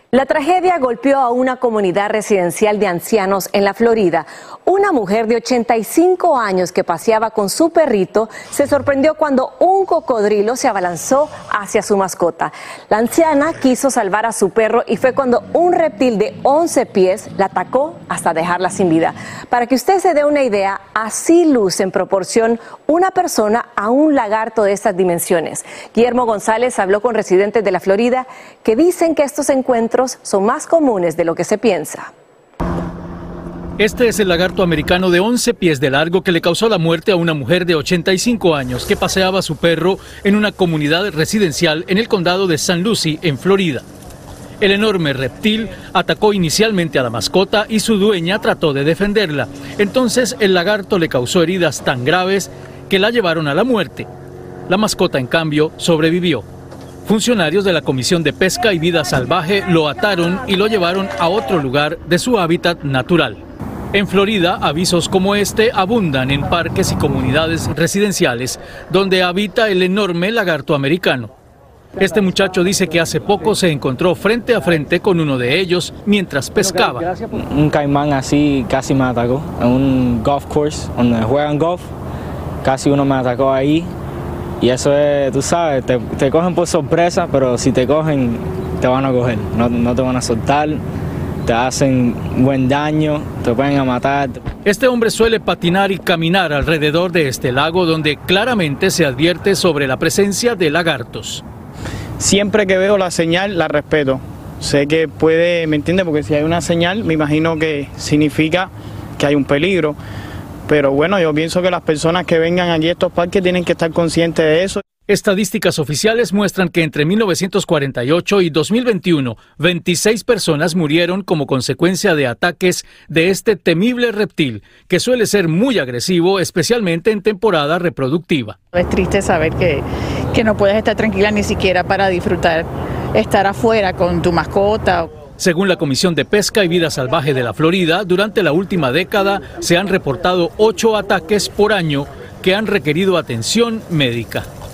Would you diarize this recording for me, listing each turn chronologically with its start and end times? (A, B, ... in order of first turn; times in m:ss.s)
0:00.1-0:32.1 A
0:33.8-0:43.8 B
0:44.6-0:54.1 B
0:54.7-0:56.4 B
0:57.1-1:03.4 B
1:03.9-1:11.3 B
1:12.0-1:17.1 B
1:17.3-1:21.9 C
1:22.6-1:23.9 C
1:24.6-1:30.8 C
1:31.4-1:34.4 C
1:34.6-1:41.4 B
1:42.2-1:50.0 C
1:50.7-1:54.8 C
1:55.1-2:08.6 B
2:08.7-2:15.1 D
2:15.4-2:24.5 B